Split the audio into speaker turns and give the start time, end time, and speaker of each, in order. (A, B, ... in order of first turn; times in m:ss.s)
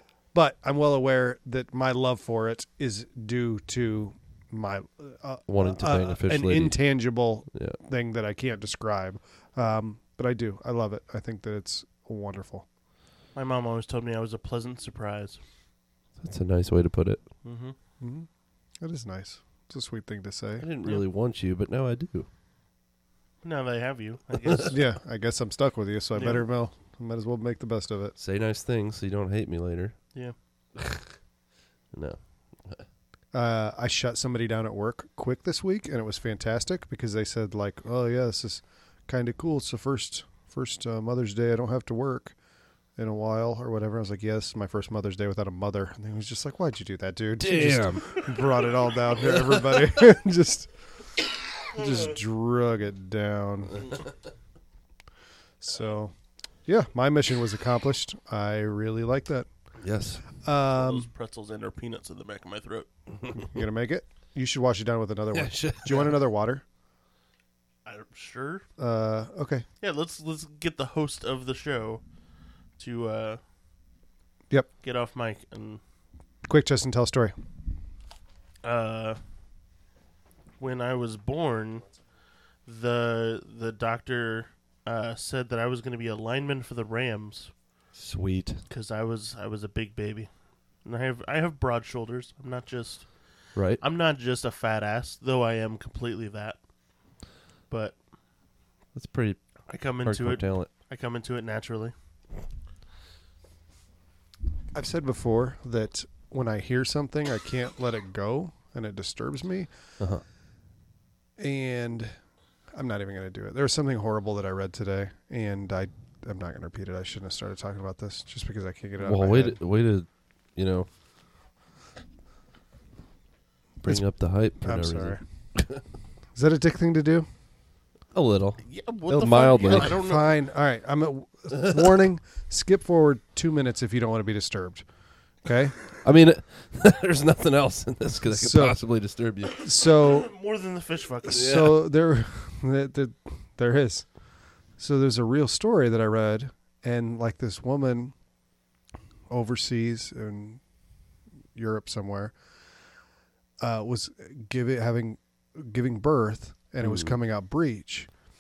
0:00.3-0:12.6 A
0:05.5-0:06.8 B
0:13.3-0:15.4 C
0:16.2-0:17.2 B
0:17.4-0:17.7 C
0:18.0-0:18.3 A
0:18.8-0:20.6 A
0:20.6-0:22.3 B
0:23.4-0:24.8 C
0:24.7-0:28.2 A
0:26.1-0:26.4 C
0:28.2-0:30.0 B
0:30.8-0:31.1 B
0:31.9-0:32.8 B
0:33.3-0:42.4 A
0:43.0-0:50.7 A
0:47.4-0:48.3 B
0:49.3-0:49.8 B
0:51.7-0:53.9 A
0:55.6-0:56.1 A
0:56.6-0:59.5 A
0:59.8-1:00.2 B
1:00.4-1:01.1 A
1:00.7-1:02.9 C
1:03.4-1:06.6 A
1:05.3-1:06.1 B
1:07.8-1:08.6 C
1:08.8-1:09.6 A
1:09.8-1:12.0 C
1:12.8-1:13.4 C
1:14.8-1:15.8 C
1:16.4-1:17.3 A
1:18.6-1:19.2 C
1:20.6-1:21.9 C
1:22.6-1:27.5 C
1:27.9-1:28.6 B
1:28.7-1:30.3 C
1:30.8-1:33.1 C
1:33.5-1:33.8 B
1:33.8-1:36.6 C
1:37.7-1:38.0 C
1:38.9-1:39.4 B
1:39.7-1:41.9 C
1:40.0-1:40.7 B
1:44.7-1:49.7 A
1:51.4-1:52.1 A
1:52.7-1:59.6 A
1:59.0-2:00.9 B
2:03.8-2:05.8 B
2:04.6-2:05.2 A
2:06.3-2:07.3 A
2:08.1-2:10.0 B
2:08.6-2:10.3 C
2:09.7-2:14.8 A
2:15.4-2:15.8 A
2:16.0-2:19.6 B
2:18.3-2:18.8 A
2:19.6-2:20.3 A
2:20.0-2:21.5 C
2:21.2-2:24.1 A
2:21.3-2:21.8 B
2:24.8-2:28.1 A
2:29.3-2:30.6 A
2:31.5-2:32.3 A
2:33.6-2:38.1 A
2:36.8-2:37.2 B